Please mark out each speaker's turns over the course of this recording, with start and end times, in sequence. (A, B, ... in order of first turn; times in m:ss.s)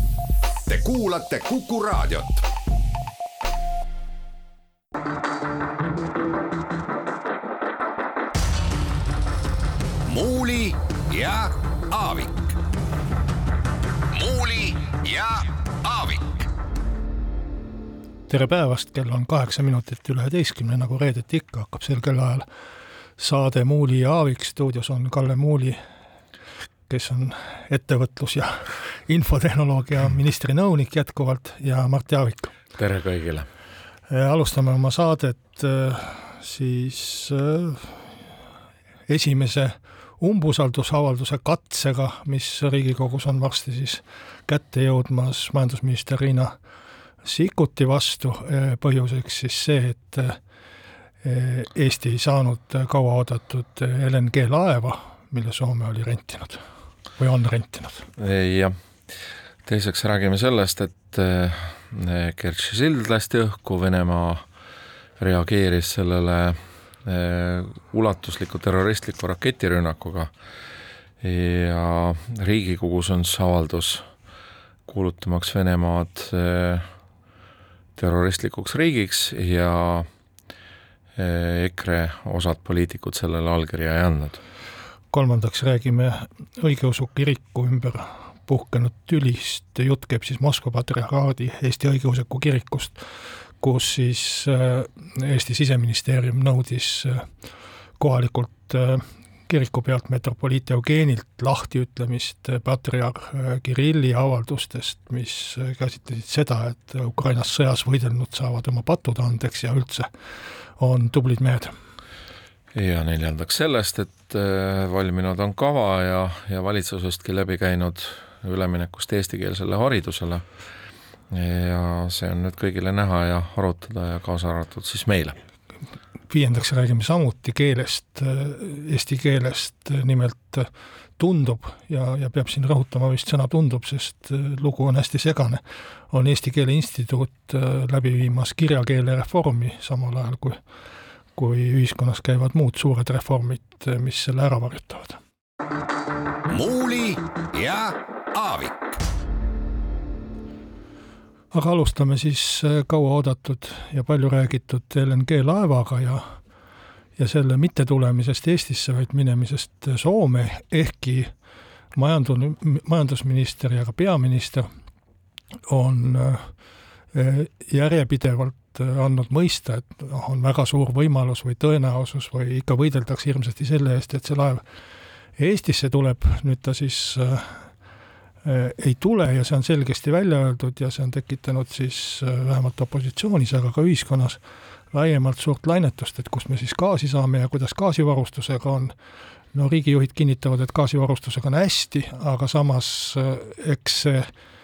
0:00.7-0:02.4 A
0:10.1-0:12.5 A
0:14.1-0:16.4 A
0:18.3-0:22.5 B
0:23.2-0:25.8 B
0:26.9-0:32.5 B
0:32.8-0:33.5 C
0:34.1-0:38.1 B
0:39.1-0:46.6 B
0:47.2-0:50.4 B
0:51.2-0:56.6 B
0:57.2-0:58.1 B
0:58.2-0:58.8 C
0:59.6-1:04.4 C
1:05.2-1:10.3 C
1:11.2-1:14.0 C
1:14.9-1:16.9 C
1:18.0-1:20.1 C
1:21.2-1:24.4 C
1:25.1-1:33.0 B
1:33.6-1:37.3 B
1:38.0-1:50.1 B
1:50.8-1:51.7 B
1:52.8-2:00.4 C
2:01.3-2:05.4 C
2:06.3-2:20.6 B
2:21.4-2:25.2 B
2:26.5-2:28.9 A
2:31.5-2:36.2 B
2:37.2-2:41.3 B
2:42.0-2:44.7 B
2:45.7-2:46.5 B
2:47.1-2:54.6 B
2:55.4-2:57.6 B
2:58.4-3:04.4 B
3:04.9-3:08.9 B
3:09.5-3:14.3 B